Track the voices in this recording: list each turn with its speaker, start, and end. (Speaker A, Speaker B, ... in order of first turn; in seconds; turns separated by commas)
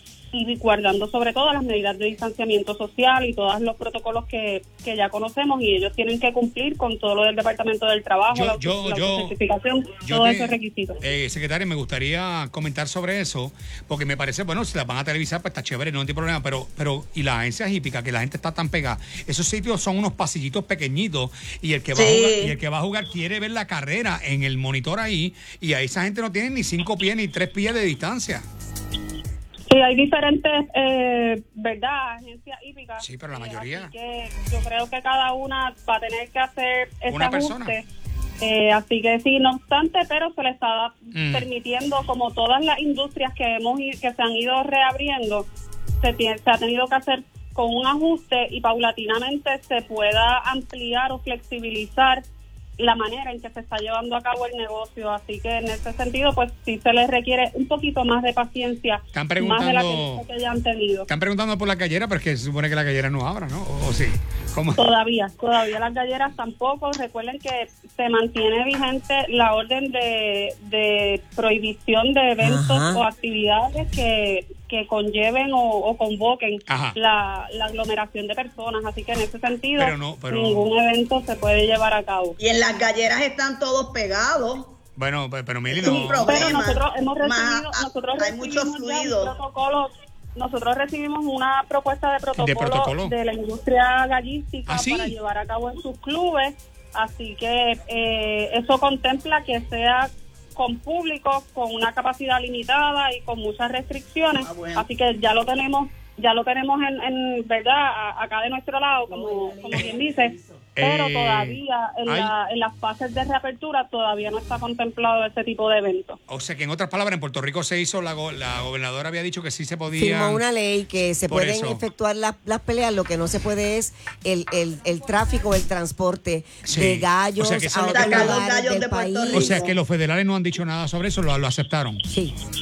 Speaker A: 0.3-11.0, Speaker B: 8.3-9.3, Speaker B: 10.0-28.4, Speaker C: 21.9-22.5, Speaker A: 29.7-37.9, Speaker B: 33.0-33.9, Speaker B: 37.1-37.8, Speaker A: 38.4-45.5, Speaker B: 41.1-41.5, Speaker A: 46.0-52.2, Speaker A: 52.8-61.1, Speaker B: 59.1-60.2, Speaker B: 61.1-64.8, Speaker A: 64.8-82.4, Speaker D: 72.4-73.0, Speaker B: 76.7-77.0, Speaker B: 79.8-80.7, Speaker C: 82.4-84.7, Speaker B: 85.0-86.5, Speaker C: 85.7-89.3, Speaker A: 85.8-116.2, Speaker B: 92.4-93.1, Speaker B: 94.7-95.1, Speaker C: 104.4-104.8, Speaker D: 109.1-110.6, Speaker B: 110.8-112.3, Speaker B: 116.3-120.4, Speaker D: 119.9-129.7, Speaker B: 121.3-121.8, Speaker B: 126.6-128.4, Speaker C: 127.9-129.7, Speaker B: 129.3-132.0, Speaker D: 132.1-132.3